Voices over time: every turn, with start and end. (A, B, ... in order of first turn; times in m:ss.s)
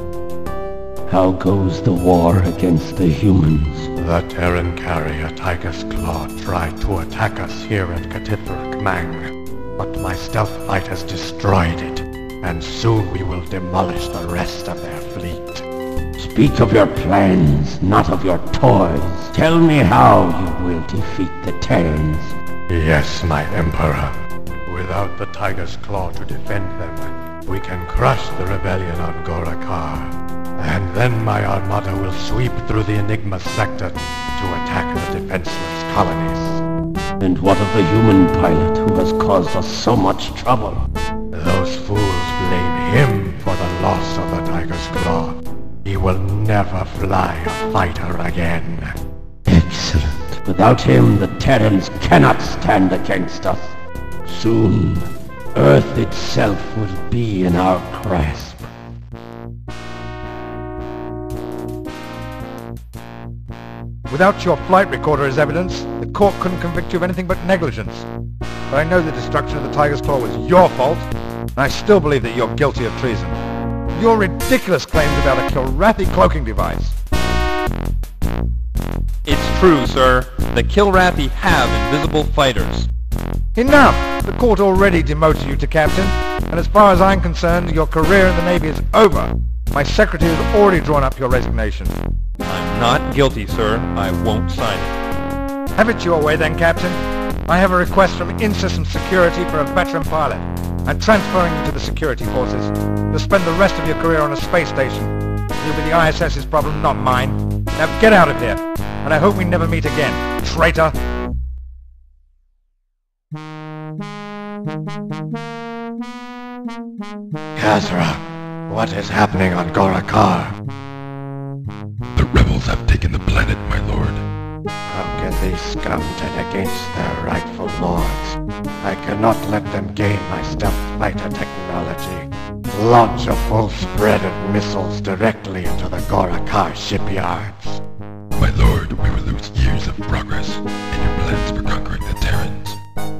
0:01.1-0:03.9 A
0:04.0-0:15.6 B
0:16.2-0:22.4 A
0:22.7-0:24.2 B
0:24.7-0:36.6 B
0:37.2-0:40.8 A
0:41.3-0:48.9 B
0:49.5-0:58.7 A
1:04.1-1:08.1 C
1:08.7-1:13.4 C
1:14.0-1:17.0 C
1:19.2-1:22.9 D
1:23.6-1:31.9 C
1:32.5-1:35.0 D
1:35.8-1:51.0 C
1:57.6-2:00.6 B
2:02.2-2:04.2 E
2:04.9-2:17.8 B
2:18.4-2:22.8 E